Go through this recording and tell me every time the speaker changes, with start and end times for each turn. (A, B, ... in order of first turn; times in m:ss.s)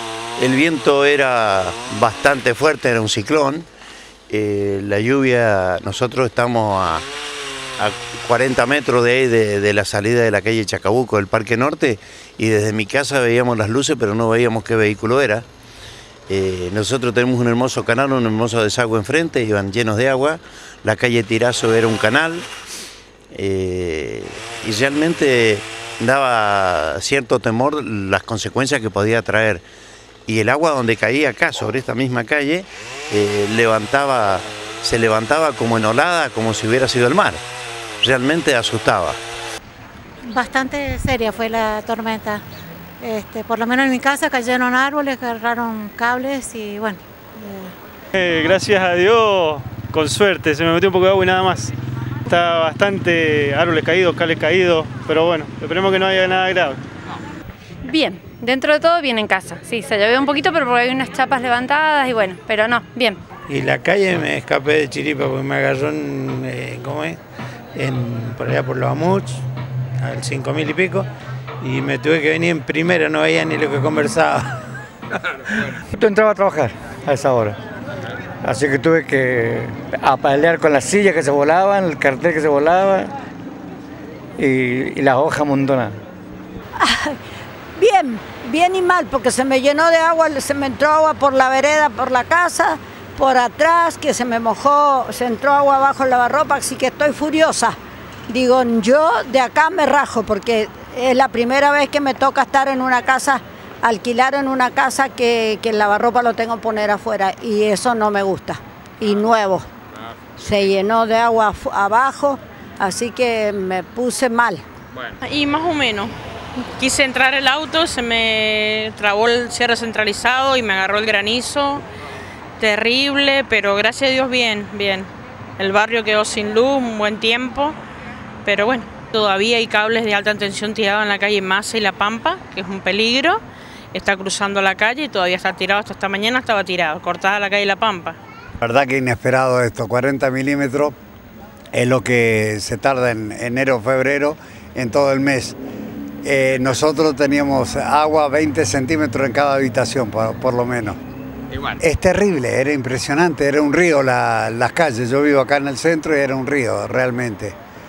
0:00.4-0:03.7 A
0:04.3-0:07.0 A
0:07.8-0:15.4 A
0:16.3-0:22.5 A
0:23.3-0:29.6 A
0:30.3-0:37.4 A
0:38.0-0:39.2 A
0:40.2-0:42.4 B
0:43.0-0:47.7 B
0:48.2-0:51.7 C
0:52.3-0:56.8 C
0:57.8-1:03.2 D
1:03.5-1:07.2 E
1:07.8-1:09.4 E
1:10.0-1:11.1 E
1:11.6-1:14.6 E
1:15.5-1:17.6 F
1:18.4-1:23.1 F
1:24.4-1:26.0 F
1:26.8-1:27.2 G
1:27.8-1:37.8 G
1:38.3-1:49.7 G
1:50.4-1:54.6 G
1:55.2-1:56.1 H
1:56.8-2:01.8 H
2:02.6-2:07.8 H
2:08.4-2:13.4 H
2:13.9-2:18.2 H
2:18.6-2:21.0 I
2:21.7-2:25.6 I
2:26.2-2:31.0 I
2:31.8-2:37.6 I